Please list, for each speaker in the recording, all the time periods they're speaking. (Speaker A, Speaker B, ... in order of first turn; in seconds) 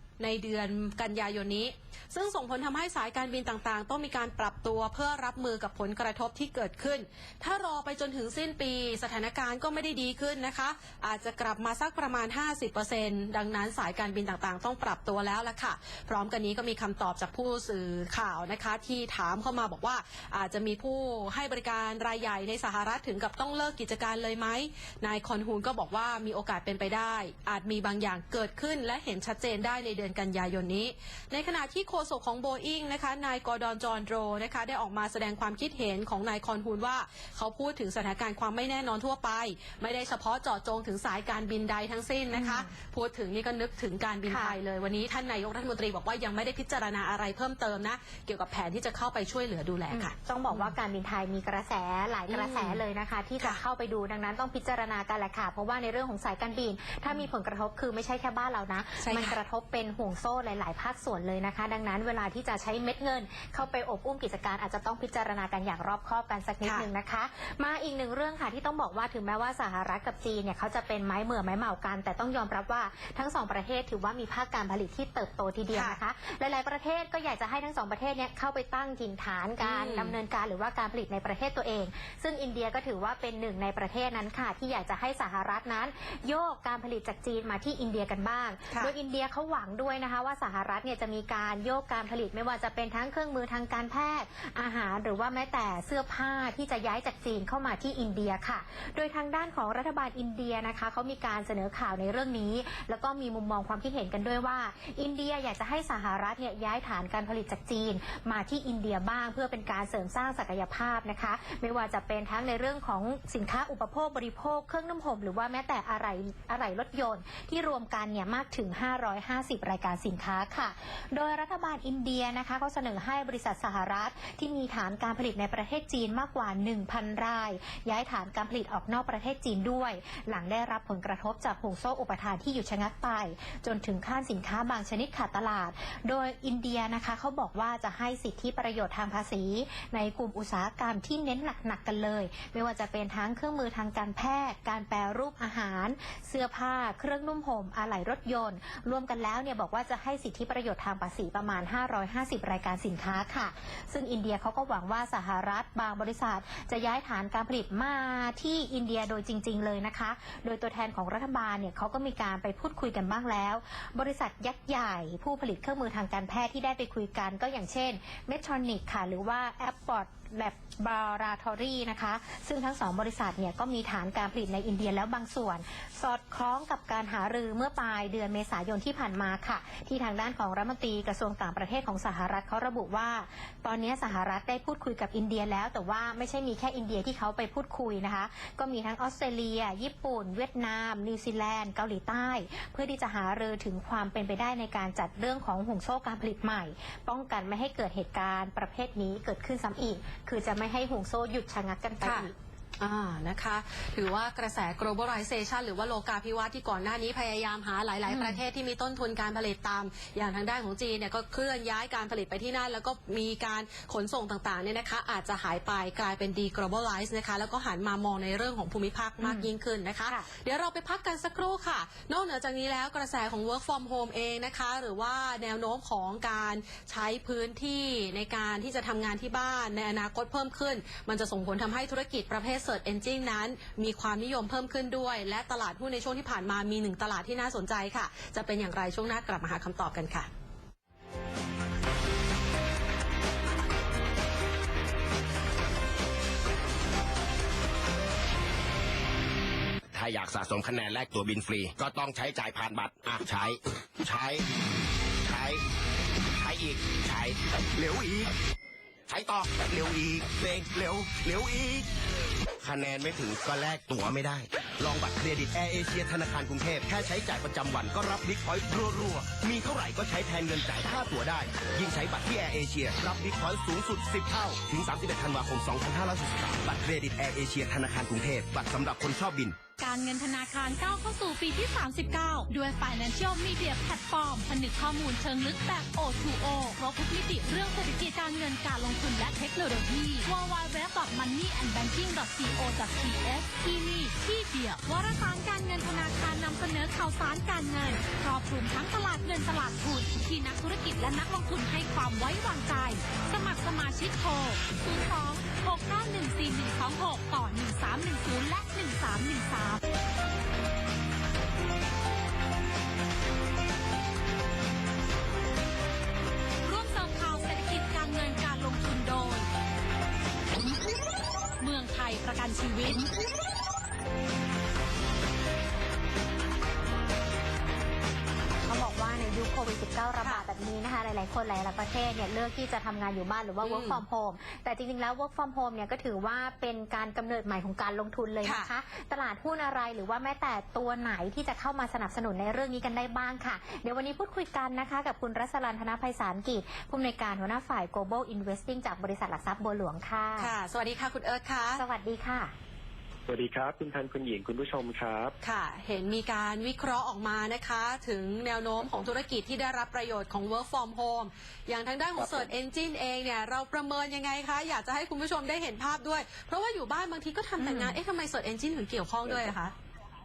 Speaker A: 0.2-50.7, 52.3-52.8, 59.0-59.4, 79.6-80.2, 202.0-240.3, 333.6-334.0, 338.4-338.7, 350.4-351.8, 355.4-369.7
Speaker B: 42.3-42.7, 44.3-44.5, 49.9-202.3, 208.1-208.4, 219.2-219.5, 328.6-350.5, 351.8-352.5, 367.6-367.9
Speaker C: 249.9-254.5, 255.2-255.6, 256.3-258.3, 259.1-261.9, 262.6-279.6
Speaker D: 279.8-309.8, 316.6-319.5, 321.6-323.1
Speaker E: 353.3-355.3, 358.8-359.1, 362.1-362.5, 369.2-369.5